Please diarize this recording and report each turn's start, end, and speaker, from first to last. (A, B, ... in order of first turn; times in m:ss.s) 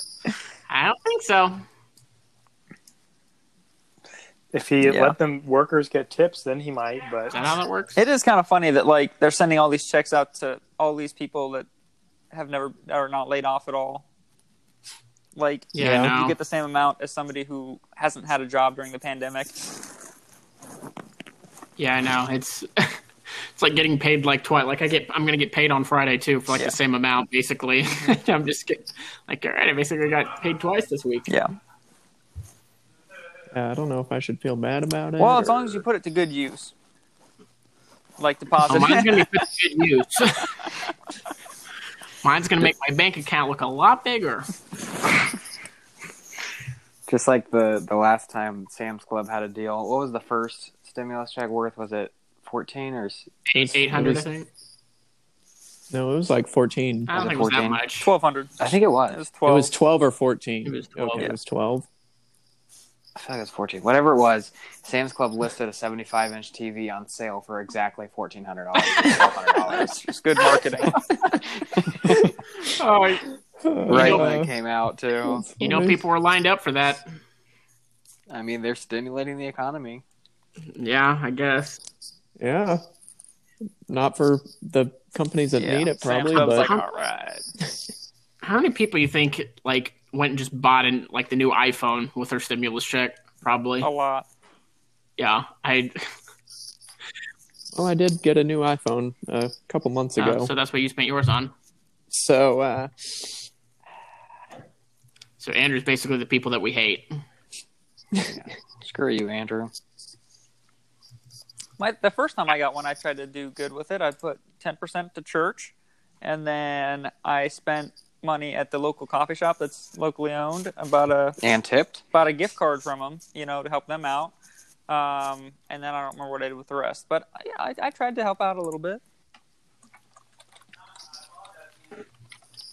0:00.7-0:01.6 A
0:04.5-0:07.3 B
0:04.8-0:05.2 C
0:07.3-0:08.0 A
0:08.0-0:11.7 C
0:12.3-0:14.0 C
0:15.3-0:19.6 C
0:15.7-0:16.4 A
0:15.8-0:16.1 D
0:21.8-0:23.0 A
0:23.6-0:31.3 A
0:33.5-0:35.8 D
0:35.2-0:36.7 C
0:38.2-0:39.2 C
0:38.7-0:40.7 A
0:42.2-0:44.5 A
0:47.1-0:53.3 E
0:53.5-0:54.5 A
0:53.5-0:54.3 D
0:55.9-0:57.2 D
0:57.1-0:58.1 A
0:57.1-0:57.8 E
0:58.0-0:59.7 C
0:58.6-0:59.2 E
0:59.4-1:01.8 D
1:00.6-1:01.3 A
1:03.2-1:10.0 E
1:09.8-1:11.0 C
1:11.7-1:12.2 E
1:12.6-1:13.2 A
1:13.6-1:14.5 D
1:13.9-1:15.4 E
1:13.9-1:14.3 A
1:15.2-1:16.0 D
1:15.6-1:17.1 A
1:18.3-1:20.0 E
1:20.7-1:21.8 A
1:22.4-1:22.8 D
1:23.9-1:26.7 D
1:25.6-1:27.4 C
1:26.3-1:26.8 A
1:28.4-1:33.9 A
1:33.8-1:34.2 C
1:35.2-1:36.0 A
1:37.7-1:40.5 D
1:40.2-1:41.5 A
1:42.1-1:43.4 D
1:45.4-1:47.1 A
1:48.2-1:49.7 E
1:51.8-2:01.4 C
2:01.4-2:02.0 E
2:02.1-2:04.3 C
2:04.9-2:09.0 C